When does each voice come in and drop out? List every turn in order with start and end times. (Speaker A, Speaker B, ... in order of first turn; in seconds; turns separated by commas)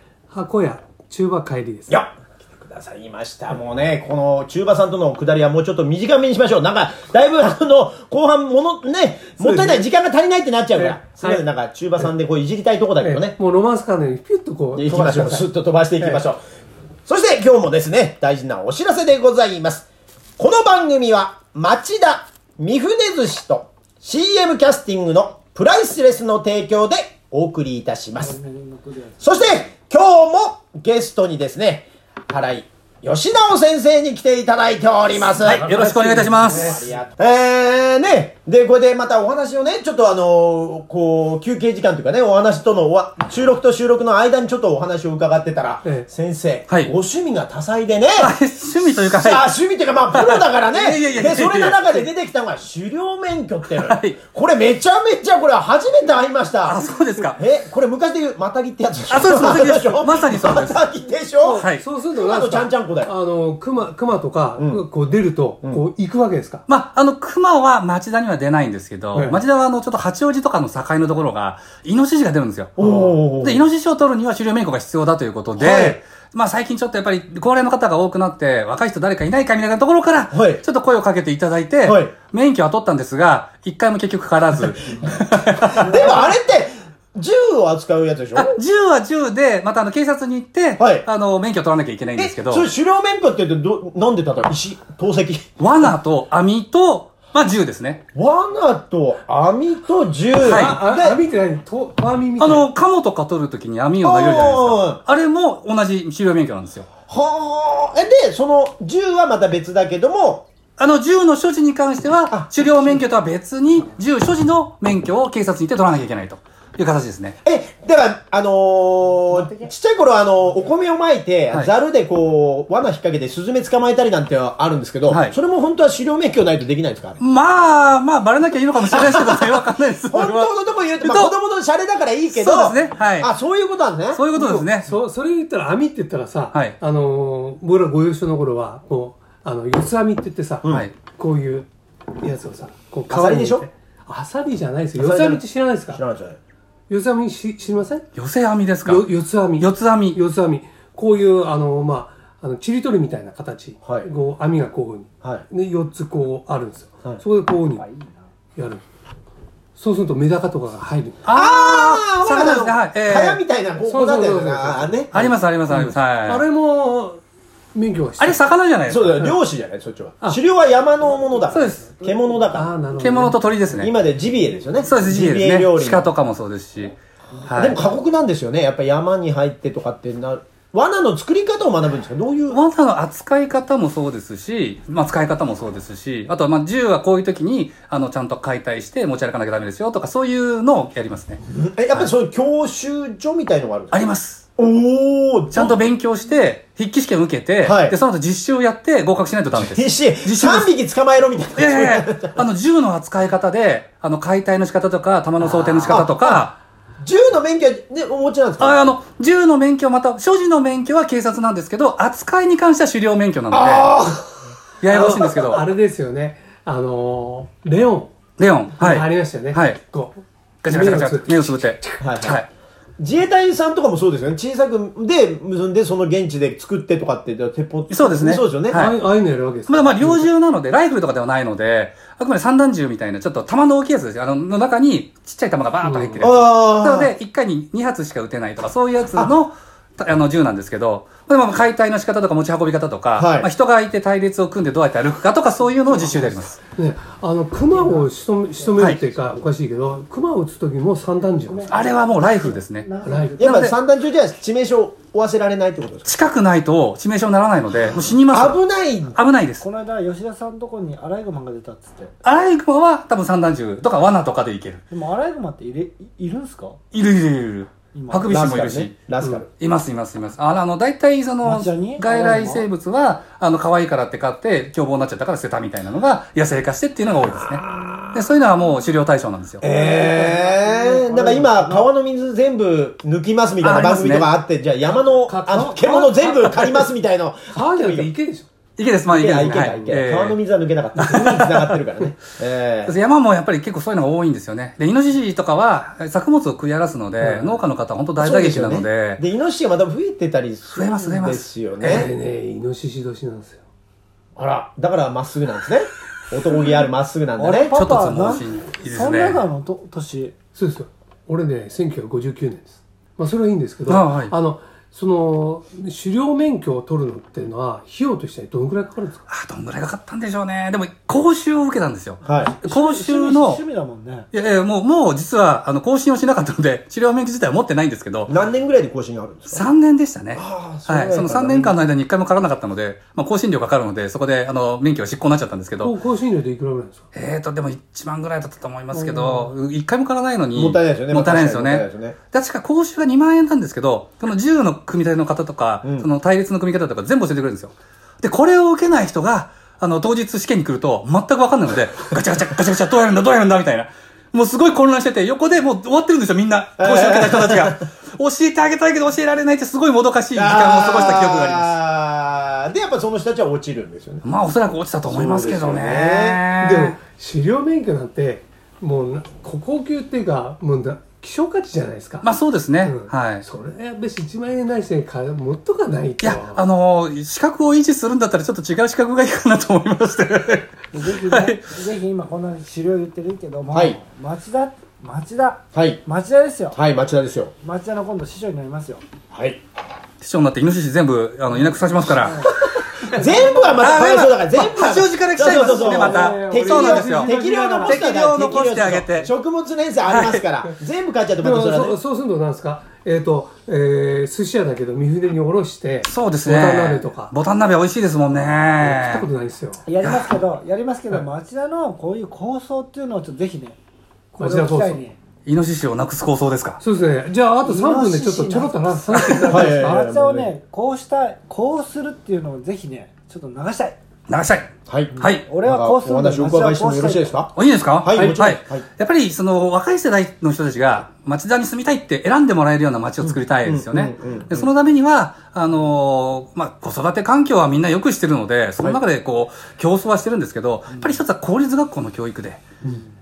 Speaker A: 0.3-1.9, Speaker B: 1.9-13.4, Speaker A: 9.4-9.8, Speaker A: 10.8-11.4, Speaker A: 13.0-15.5, Speaker B: 14.8-16.4, Speaker B: 17.1-19.9, Speaker B: 20.4-28.4, Speaker C: 28.2-29.6, Speaker B: 29.2-35.8, Speaker D: 35.4-36.7, Speaker A: 35.5-36.9, Speaker B: 36.3-48.3, Speaker D: 48.2-49.5, Speaker B: 48.9-63.1, Speaker D: 50.1-52.0, Speaker D: 53.8-54.2, Speaker D: 56.6-57.4, Speaker D: 59.1-60.8, Speaker A: 61.4-66.6, Speaker D: 61.6-61.9, Speaker B: 64.6-64.8, Speaker D: 66.7-85.9, Speaker A: 69.1-69.4, Speaker B: 72.8-73.7, Speaker A: 72.8-73.1, Speaker B: 75.6-76.0, Speaker B: 80.3-80.6, Speaker B: 81.8-82.1, Speaker B: 85.7-88.5, Speaker D: 88.3-92.7, Speaker B: 90.8-91.1, Speaker B: 92.2-95.5, Speaker D: 95.6-98.0, Speaker B: 98.2-101.2, Speaker D: 100.4-100.8, Speaker A: 100.5-102.7, Speaker D: 102.4-106.9, Speaker B: 104.0-105.0, Speaker B: 107.1-110.5, Speaker D: 110.8-117.4, Speaker B: 117.4-127.2, Speaker C: 119.3-119.7, Speaker D: 125.1-125.4, Speaker D: 127.2-131.3, Speaker B: 128.9-134.2, Speaker D: 132.4-133.3, Speaker D: 134.1-134.9, Speaker A: 134.3-141.7, Speaker D: 140.7-140.9, Speaker A: 142.2-146.0, Speaker B: 143.1-143.7, Speaker B: 144.9-146.4, Speaker A: 146.9-148.1, Speaker D: 148.2-150.2, Speaker A: 148.8-157.9, Speaker B: 153.8-154.1, Speaker C: 157.8-158.3, Speaker A: 158.6-158.8, Speaker A: 159.8-161.3, Speaker D: 161.2-163.4, Speaker B: 161.3-165.1, Speaker A: 163.8-167.2, Speaker D: 165.1-166.4, Speaker A: 167.7-168.4, Speaker D: 168.2-169.2, Speaker B: 168.9-172.7, Speaker C: 171.1-172.6, Speaker A: 171.5-171.9, Speaker A: 172.5-173.4, Speaker D: 173.0-173.9, Speaker B: 173.8-176.1, Speaker D: 174.8-177.8, Speaker C: 177.4-177.8, Speaker B: 177.6-182.6, Speaker D: 182.5-191.4, Speaker B: 191.5-194.0, Speaker D: 193.9-194.4, Speaker B: 194.6-195.8, Speaker D: 195.5-200.7, Speaker B: 197.6-197.9, Speaker B: 199.6-202.4, Speaker D: 201.6-206.6, Speaker B: 205.4-206.5, Speaker B: 207.0-208.8, Speaker D: 208.6-213.9, Speaker B: 213.5-214.4, Speaker D: 214.8-215.6, Speaker A: 214.9-218.1, Speaker B: 214.9-215.6, Speaker D: 218.4-219.8, Speaker A: 218.8-222.0, Speaker D: 220.6-222.5, Speaker B: 222.0-222.4, Speaker B: 223.0-228.8, Speaker D: 227.9-229.0, Speaker A: 228.7-230.3, Speaker D: 229.7-246.6, Speaker A: 235.8-236.3, Speaker B: 236.2-237.1, Speaker B: 243.2-243.5, Speaker A: 246.8-251.8, Speaker C: 247.7-249.4, Speaker C: 251.4-253.7, Speaker D: 251.7-252.9, Speaker A: 253.0-253.4, Speaker B: 253.4-256.1, Speaker D: 253.4-253.7, Speaker D: 256.1-258.6, Speaker B: 258.3-259.2, Speaker D: 259.1-259.6, Speaker C: 259.6-262.1, Speaker D: 262.2-264.8, Speaker C: 264.9-266.8, Speaker D: 266.9-268.9, Speaker C: 267.9-268.6, Speaker B: 268.3-269.5, Speaker D: 269.6-279.6, Speaker C: 271.4-272.6, Speaker B: 279.6-288.1, Speaker C: 279.6-281.9, Speaker D: 283.6-284.3, Speaker A: 285.3-286.9, Speaker A: 287.5-288.5, Speaker D: 288.8-290.4, Speaker B: 289.1-292.9, Speaker A: 289.5-289.8, Speaker D: 291.1-291.5, Speaker D: 292.9-299.2, Speaker A: 297.2-297.6, Speaker B: 298.2-302.1, Speaker D: 300.8-302.1, Speaker A: 301.9-303.6, Speaker B: 304.4-307.7, Speaker C: 307.4-310.4, Speaker D: 307.7-309.4, Speaker A: 310.6-319.2, Speaker D: 313.9-314.3, Speaker D: 319.3-323.6, Speaker B: 322.2-322.6, Speaker C: 322.6-324.3, Speaker D: 324.3-328.3, Speaker B: 328.3-329.6, Speaker D: 329.5-336.0, Speaker B: 330.4-331.8, Speaker A: 335.8-337.0, Speaker D: 337.1-361.8, Speaker A: 338.9-339.5, Speaker B: 340.5-342.2, Speaker B: 356.8-357.8, Speaker B: 360.4-364.2, Speaker D: 364.2-367.0, Speaker B: 365.1-366.4, Speaker A: 366.6-372.3, Speaker D: 372.2-373.4, Speaker A: 372.8-376.6, Speaker D: 376.2-381.7, Speaker C: 380.9-386.8, Speaker B: 383.7-384.0, Speaker B: 385.7-386.0, Speaker B: 386.7-387.5, Speaker C: 387.6-389.0, Speaker B: 389.3-389.6, Speaker D: 390.2-392.4, Speaker C: 392.1-393.9, Speaker B: 392.7-402.0, Speaker D: 393.8-397.3, Speaker A: 395.5-398.0, Speaker C: 395.5-397.9, Speaker D: 397.9-399.3, Speaker D: 400.1-400.4, Speaker A: 401.4-407.3, Speaker D: 406.1-409.3, Speaker A: 408.8-409.8, Speaker C: 409.9-413.8, Speaker D: 410.0-410.3, Speaker C: 414.3-415.2, Speaker A: 414.4-415.0, Speaker D: 415.5-416.8, Speaker A: 416.8-419.9, Speaker C: 417.6-424.0, Speaker D: 419.1-419.5, Speaker B: 419.5-420.5, Speaker D: 424.3-425.5, Speaker B: 424.9-428.9, Speaker C: 425.1-427.3, Speaker D: 427.6-442.7, Speaker B: 433.2-434.7, Speaker C: 440.9-441.2